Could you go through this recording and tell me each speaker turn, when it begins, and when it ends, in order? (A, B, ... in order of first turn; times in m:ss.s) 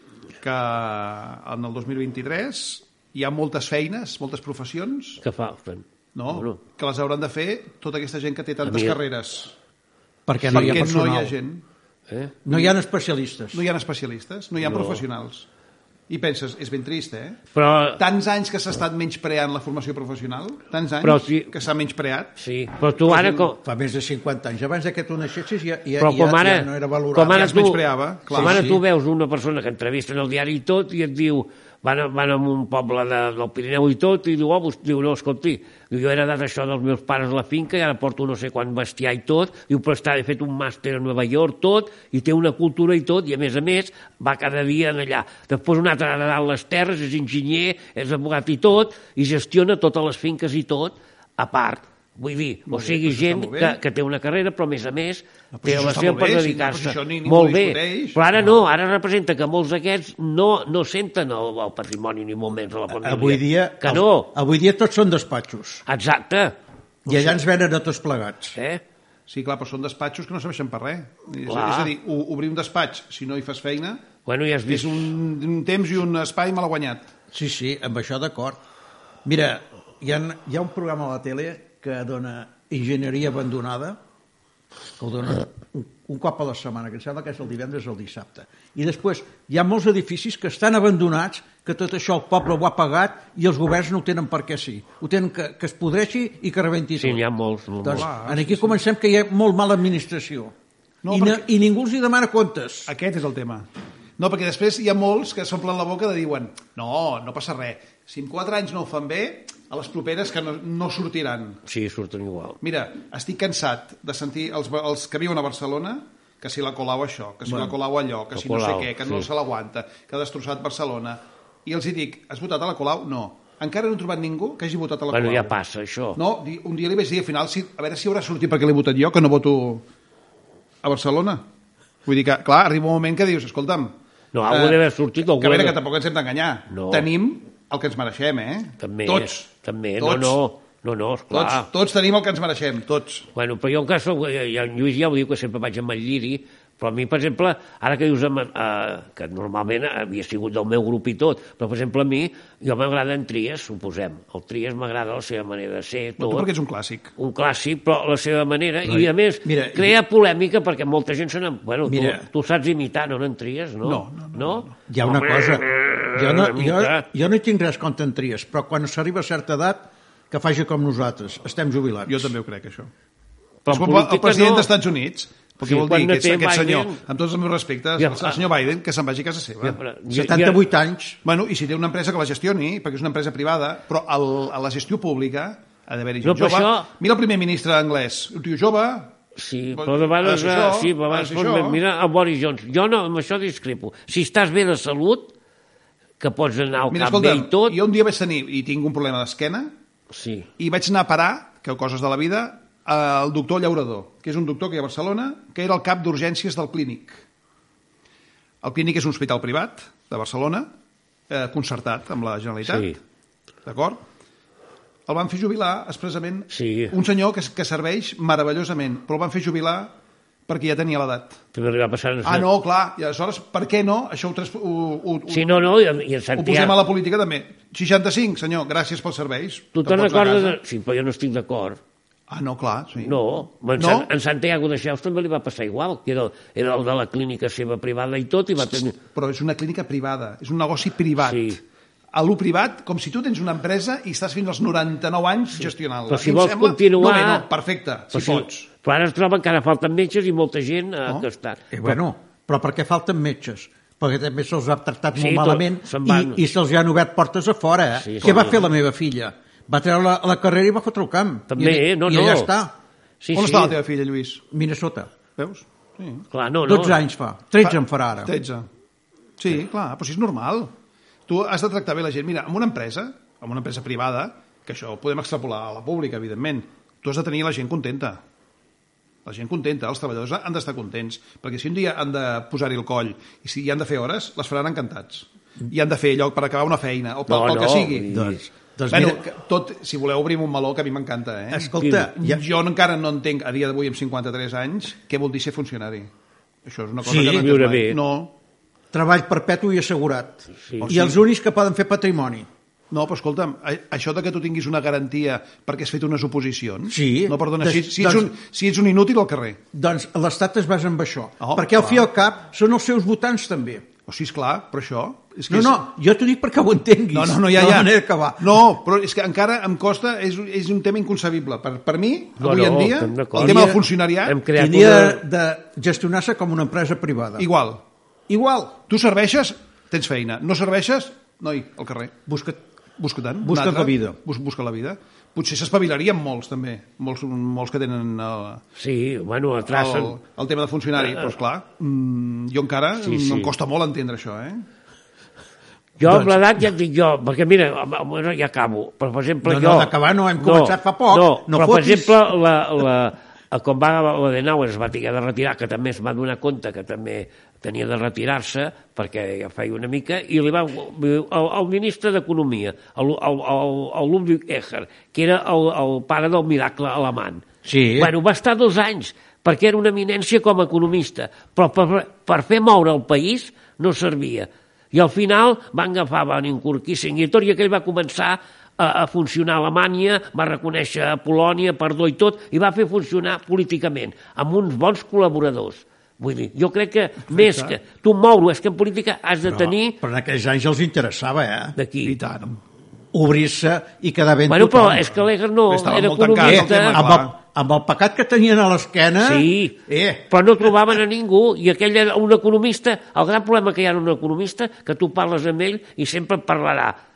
0:00.4-0:05.2 A
0:05.2-0:06.6 B
0:06.1-0:09.5 A
0:08.6-0:09.0 B
0:10.3-0:11.3 C
0:10.4-0:11.6 A
0:10.5-0:10.8 B
0:12.1-0:12.4 B
0:12.4-0:13.6 C
0:12.5-0:12.8 A
0:13.5-0:15.4 A
0:14.6-0:15.0 B
0:16.1-0:17.4 A
0:17.5-0:18.0 B
0:18.0-0:22.3 A
0:21.0-0:21.5 B
0:22.4-0:23.6 B
0:23.0-0:23.5 A
0:23.6-0:27.6 C
0:26.0-1:04.3 B
0:27.3-0:28.7 A
0:28.3-0:28.8 C
0:52.7-0:53.8 A
0:55.5-0:58.2 A
1:03.0-1:05.8 C
1:05.8-1:06.5 B
1:07.0-1:08.6 C
1:07.1-1:07.4 B
1:08.5-1:08.8 B
1:09.3-1:14.0 A
1:11.4-1:11.9 B
1:14.2-1:15.1 B
1:14.7-1:17.1 A
1:17.3-1:18.6 C
1:19.2-1:24.0 C
1:25.0-1:37.2 C
1:37.0-1:38.1 B
1:37.8-1:40.5 C
1:37.8-1:38.7 A
1:41.0-1:41.4 A
1:41.1-1:42.9 C
1:42.9-1:43.6 A
1:44.2-1:51.6 A
1:51.6-1:52.6 B
1:52.6-2:05.5 A
1:58.3-1:59.3 B
2:05.1-2:06.2 B
2:06.2-2:09.8 A
2:10.8-2:11.4 A
2:12.0-2:13.9 A
2:14.3-2:15.8 B
2:14.5-2:19.4 A
2:16.7-2:17.0 B
2:18.8-2:21.7 B
2:20.0-2:20.4 A
2:21.3-2:23.2 A
2:23.3-2:36.5 B
2:36.2-2:37.1 A
2:37.2-2:47.0 B
2:38.8-2:39.9 C
2:41.9-2:42.2 C
2:43.8-2:44.7 A
2:44.9-2:52.3 C
2:52.0-2:52.9 A
2:53.6-2:54.7 B
2:53.7-2:59.8 A
2:55.6-2:57.0 B
2:58.0-2:58.4 B
2:59.6-3:00.6 B
3:00.1-3:01.2 C
3:01.2-3:09.1 A
3:06.2-3:06.9 B
3:09.4-3:15.3 B
3:09.7-3:11.8 A
3:16.2-3:17.8 B
3:16.9-3:19.7 A
3:20.1-3:20.5 B
3:20.6-3:27.2 A
3:28.6-3:30.7 A
3:31.3-3:33.0 A
3:32.6-3:33.0 B
3:33.6-3:34.0 A
3:35.1-3:39.9 A
3:36.5-3:36.9 B
3:40.5-3:41.4 A
3:41.5-3:42.5 B
3:42.2-3:45.6 A
3:45.3-3:46.8 B
3:46.4-3:50.6 A
3:49.7-3:51.8 B
3:52.3-3:54.1 A
3:53.0-3:59.0 B
3:59.0-4:01.6 A
4:01.2-4:01.6 B
4:02.1-4:08.7 A
4:06.1-4:07.4 B
4:08.1-4:11.9 B
4:11.7-4:22.7 C
4:15.1-4:16.4 B
4:18.0-4:18.6 B
4:21.5-4:22.5 B
4:23.2-4:23.8 B
4:23.3-4:24.4 A
4:24.5-4:25.1 C
4:25.4-4:26.2 A
4:26.3-4:27.0 B
4:26.6-4:28.3 C
4:27.6-4:28.7 A
4:29.4-4:30.7 A
4:31.3-4:38.2 A
4:39.2-4:48.1 A
4:47.3-4:48.4 B
4:48.1-4:49.2 C
4:48.9-4:56.1 A
4:51.5-4:52.4 C
4:51.8-4:52.1 B
4:56.6-4:58.3 A
4:57.0-4:57.5 C
4:57.1-4:58.0 B
4:58.9-5:02.5 C
5:00.8-5:01.2 A
5:02.9-5:09.6 A
5:06.9-5:08.3 C
5:09.7-5:13.9 C
5:11.4-5:12.0 A
5:14.0-5:15.8 A
5:15.5-5:18.6 C
5:17.1-5:24.4 A
5:22.4-5:25.2 B
5:23.4-5:23.8 C
5:24.5-5:27.5 C
5:27.4-5:27.8 A
5:28.3-5:28.8 C
5:28.9-5:32.2 A
5:32.3-5:32.6 C
5:33.0-5:38.6 A
5:33.4-5:34.2 C
5:38.8-5:40.2 B
5:39.6-5:44.6 A
5:43.0-5:43.5 B
5:46.0-6:07.4 B
5:46.0-5:46.6 C
5:49.4-5:52.2 C
6:07.6-6:08.1 C
6:08.0-6:30.0 B
6:27.3-6:27.8 A
6:29.4-6:31.7 C
6:31.8-6:32.2 B
6:32.0-6:32.6 A
6:33.1-6:35.1 C
6:34.5-6:37.0 B
6:35.7-6:37.3 A
6:36.4-6:40.2 C
6:39.2-6:46.9 B